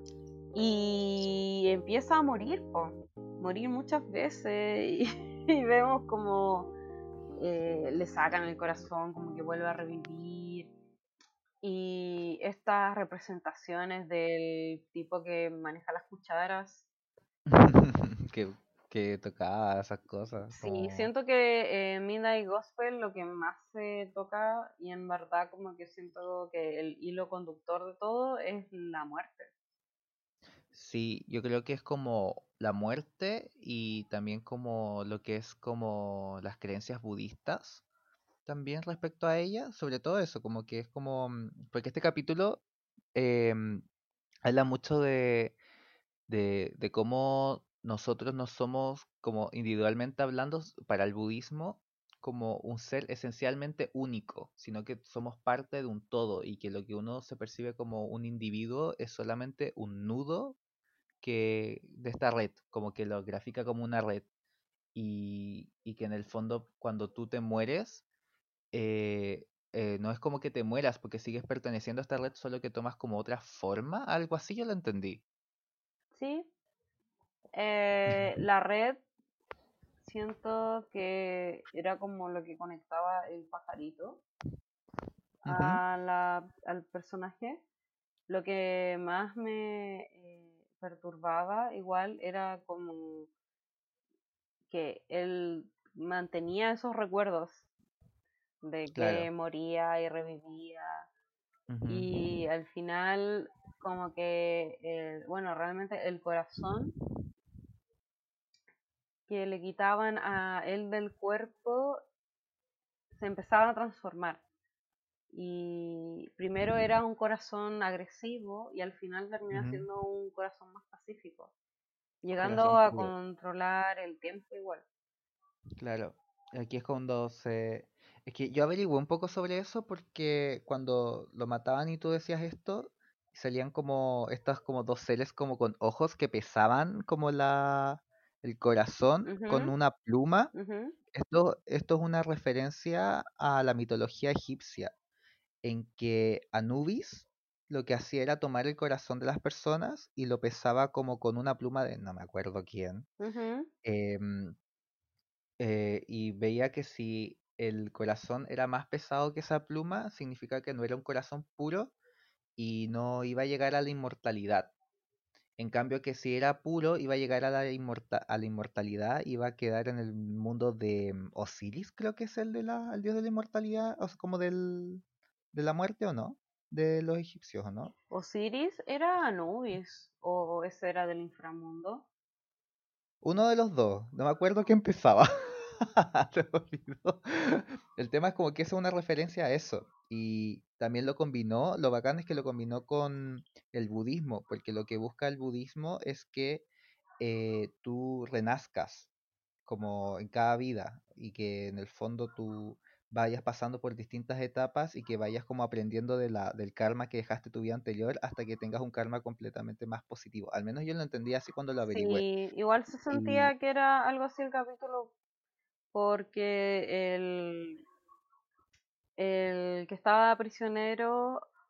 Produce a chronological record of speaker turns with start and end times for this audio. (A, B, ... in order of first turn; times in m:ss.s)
0:00.5-0:06.7 A
0:07.4-0:10.7 A
0:11.6-0:16.8 A
0:17.5-0:21.1 B
0:20.5-0:29.5 A
0:30.7-0:37.8 B
0:38.4-0:42.6 B
0:43.2-0:43.8 B
0:44.4-0:45.6 B
0:46.3-1:00.6 B
1:01.2-1:04.2 B
1:05.0-1:08.0 B
1:08.7-1:15.2 B
1:16.2-1:16.5 A
1:17.5-1:19.0 A
1:20.0-1:24.2 A
1:25.4-1:25.8 B
1:25.4-1:27.6 A
1:28.3-1:33.3 A
1:34.7-1:37.6 A
1:38.6-1:41.1 A
1:38.9-1:39.3 B
1:41.7-1:42.1 B
1:41.9-1:47.0 A
1:49.3-1:52.0 A
1:53.1-1:54.4 A
1:55.3-2:01.5 A
1:59.5-1:59.8 B
2:02.2-2:04.8 A
2:02.4-2:03.1 B
2:05.8-2:20.5 B
2:19.3-2:19.7 A
2:20.5-2:20.9 A
2:21.1-2:24.9 B
2:25.6-2:33.1 B
2:33.2-2:33.7 A
2:33.8-2:34.6 B
2:35.6-2:41.9 B
2:42.6-2:44.7 B
2:45.6-2:57.9 B
2:58.1-3:02.1 A
3:03.2-3:16.7 B
3:17.2-3:19.1 B
3:19.7-3:32.2 B
3:31.9-3:35.1 A
3:33.1-3:33.5 B
3:35.9-3:37.8 A
3:39.2-3:41.4 A